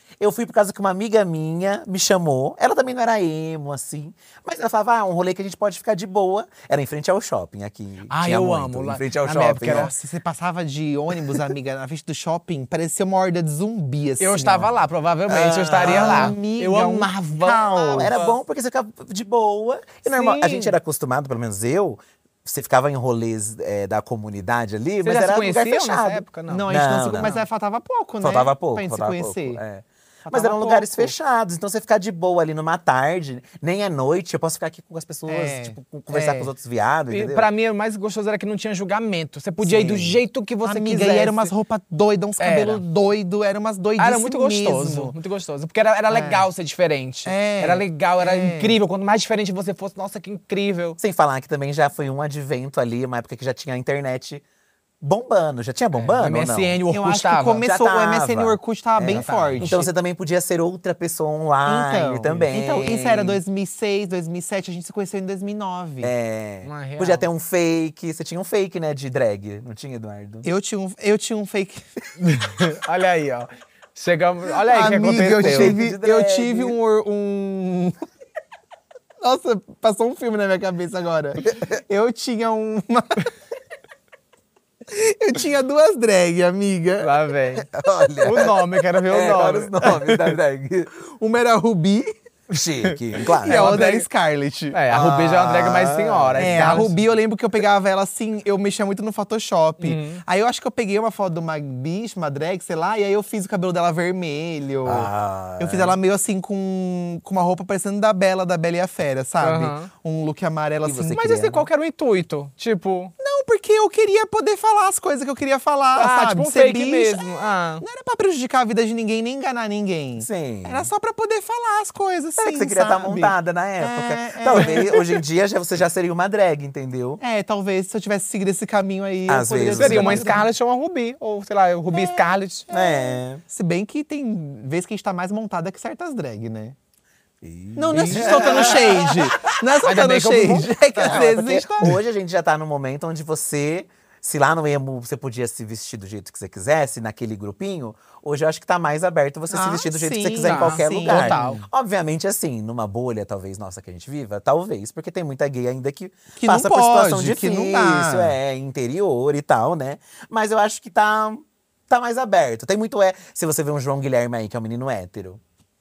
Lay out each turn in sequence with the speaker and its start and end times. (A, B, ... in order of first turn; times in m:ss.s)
0:00.2-0:09.9 A
0:08.1-0:09.9 B
0:09.6-0:14.7 C
0:14.2-0:18.4 B
0:15.3-0:16.4 A
0:15.8-0:18.1 C
0:17.9-0:27.3 A
0:20.0-0:20.7 B
0:25.0-0:27.4 B
0:26.5-0:29.6 C
0:28.2-0:37.5 A
0:30.3-0:31.1 C
0:35.3-0:36.5 C
0:37.1-0:41.5 B
0:39.6-0:40.2 A
0:40.6-0:45.1 C
0:42.4-0:42.8 B
0:44.0-0:51.0 B
0:46.1-0:46.4 C
0:47.2-0:48.7 C
0:51.0-0:54.4 A
0:55.0-0:56.8 A
0:56.0-0:57.6 B
0:56.9-0:59.8 C
0:57.6-1:03.4 A
0:59.1-0:59.8 B
1:01.6-1:06.1 C
1:06.0-1:10.5 A
1:06.6-1:07.2 B
1:10.4-1:11.8 C
1:12.2-1:15.8 B
1:14.6-1:18.0 C
1:15.3-1:16.8 A
1:19.2-1:23.3 C
1:24.9-1:27.1 C
1:27.0-1:27.7 B
1:27.7-1:30.9 A
1:28.2-1:30.1 B
1:31.0-1:32.1 C
1:32.5-1:33.8 A
1:33.3-1:34.1 B
1:33.4-1:34.9 C
1:34.7-1:36.9 B
1:34.9-1:36.9 A
1:36.4-1:51.4 C
1:39.8-1:40.2 B
1:44.8-1:46.0 A
1:49.4-1:49.9 B
1:50.8-1:51.6 A
1:51.1-1:53.1 B
1:53.2-2:05.2 C
1:56.0-1:57.8 B
2:00.2-2:00.9 A
2:02.4-2:07.2 A
2:04.5-2:04.8 B
2:07.2-2:10.5 C
2:09.3-2:10.4 A
2:09.8-2:12.6 B
2:11.9-2:16.7 C
2:12.7-2:13.4 A
2:17.4-2:19.5 A
2:17.8-2:22.0 C
2:17.9-2:19.2 B
2:19.8-2:21.2 B
2:21.0-2:45.4 A
2:29.5-2:31.6 C
2:30.4-2:31.6 B
2:36.4-2:38.4 C